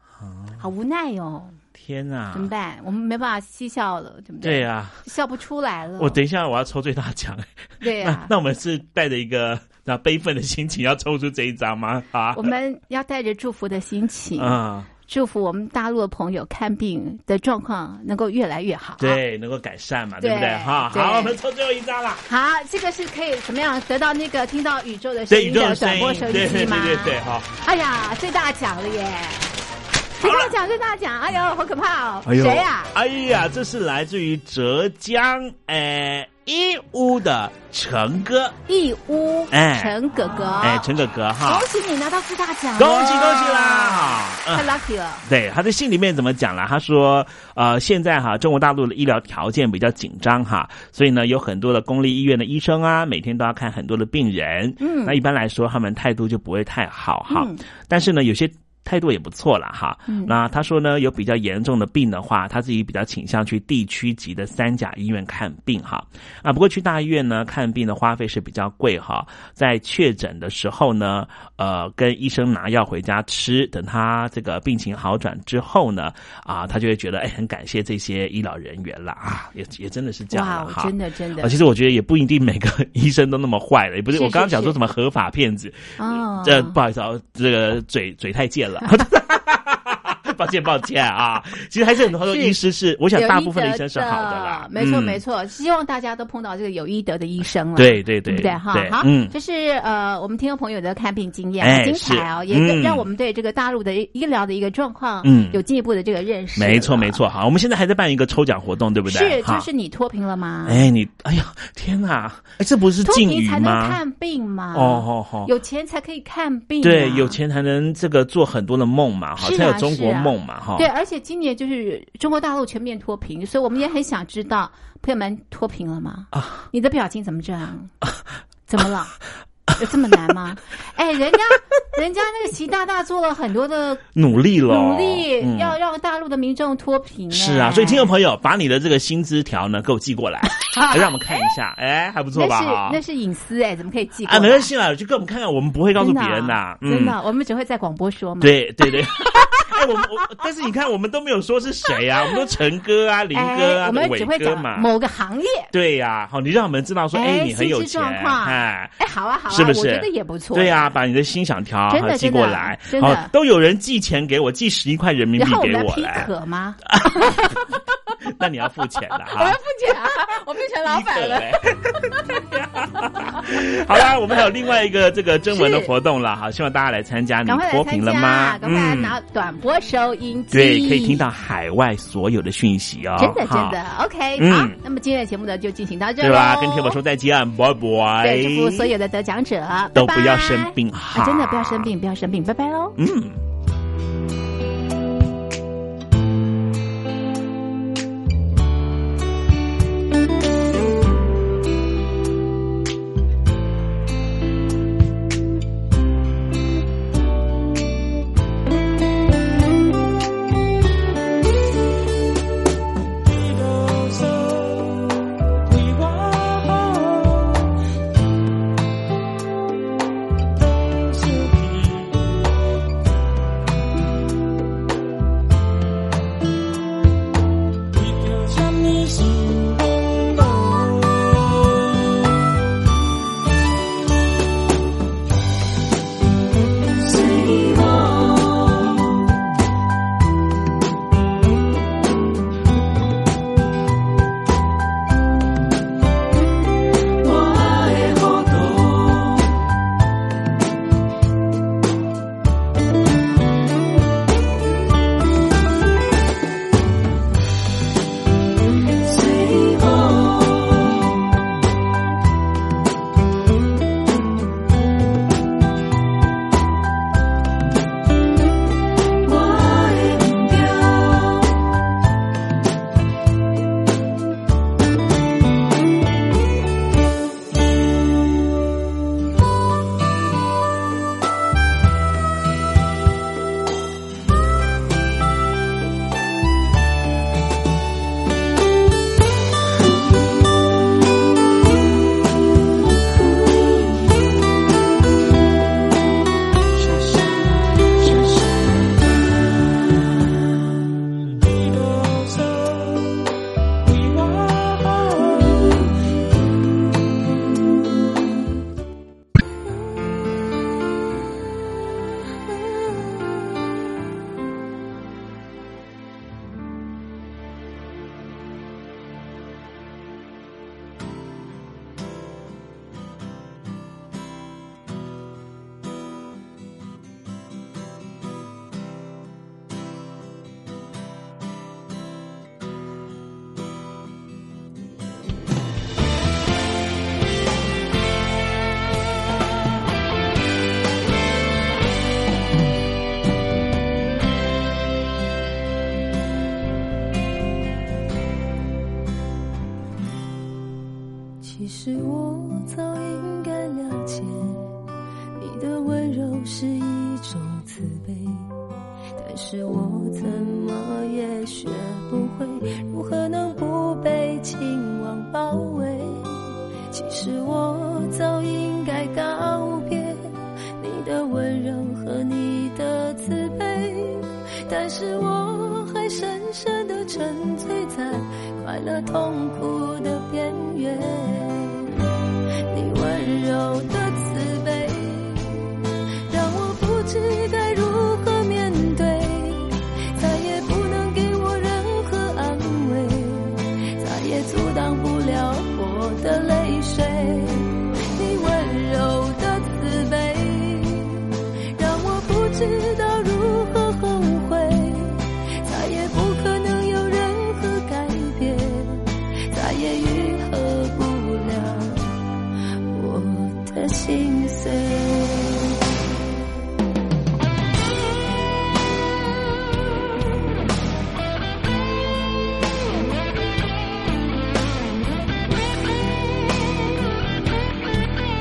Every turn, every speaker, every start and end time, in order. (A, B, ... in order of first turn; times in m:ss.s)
0:00.2-0:00.6 A
0:00.6-0:01.6 B
0:01.7-0:02.5 A
0:02.3-0:06.2 B
0:04.4-0:05.0 A
0:06.0-0:12.5 A
0:07.8-0:08.3 B
0:12.3-0:19.2 B
0:14.4-0:14.9 A
0:19.0-0:22.2 A
0:20.2-0:21.4 B
0:22.3-0:29.5 B
0:25.3-0:27.5 A
0:30.2-0:32.9 B
0:30.2-0:30.5 A
0:32.2-0:38.6 A
0:38.7-0:45.2 B
0:39.5-0:40.0 A
0:40.6-0:41.7 A
0:42.8-1:35.2 A
0:54.8-0:55.2 B
0:57.3-0:57.6 B
1:00.1-1:00.3 B
1:20.3-1:21.6 B
1:24.1-1:24.8 B
1:26.0-1:26.8 B
1:32.2-1:32.6 B
1:33.1-1:47.2 B
1:37.8-1:39.3 A
1:41.6-1:43.0 A
1:45.2-1:45.6 A
1:46.6-1:49.7 A
1:49.1-1:50.9 B
1:50.6-1:54.0 A
1:53.0-1:57.4 B
1:54.7-1:55.5 A
1:56.8-2:00.9 A
1:59.4-2:07.9 B
2:06.3-2:06.6 A
2:08.7-2:09.2 B
2:09.8-2:14.0 B
2:14.1-2:15.8 A
2:14.7-2:18.1 B
2:17.3-2:23.0 A
2:20.6-2:21.1 B
2:22.3-2:24.7 B
2:24.2-2:27.2 A
2:26.0-2:29.7 B
2:28.4-2:34.9 A
2:33.3-2:35.7 B
2:35.7-2:39.0 A
2:37.1-2:40.9 B
2:39.5-2:46.3 A
2:41.9-2:43.3 B
2:45.4-2:47.8 B
2:46.9-2:47.6 A
2:48.2-2:49.6 A
2:49.3-2:51.5 B
2:50.8-2:59.2 A
2:55.5-2:55.9 B
2:57.4-3:01.2 B
3:00.5-3:03.8 A
3:03.2-3:07.0 B
3:04.4-3:04.8 A
3:06.2-3:08.9 A
3:08.2-3:13.0 B
3:09.9-3:11.9 A
3:13.0-3:13.4 A
3:57.2-3:58.4 C
4:07.3-4:08.2 C
4:19.0-4:20.7 C
4:29.2-4:30.9 C
4:53.4-4:54.0 C
4:57.8-4:58.2 C
5:09.7-5:10.4 C
5:12.5-5:13.3 C
5:51.4-5:54.7 C
5:55.4-5:58.5 C
5:59.2-6:06.4 C
6:06.9-6:21.9 C
6:22.7-6:25.6 C
6:26.3-6:41.2 C
6:41.8-6:52.1 C
6:52.9-6:55.7 C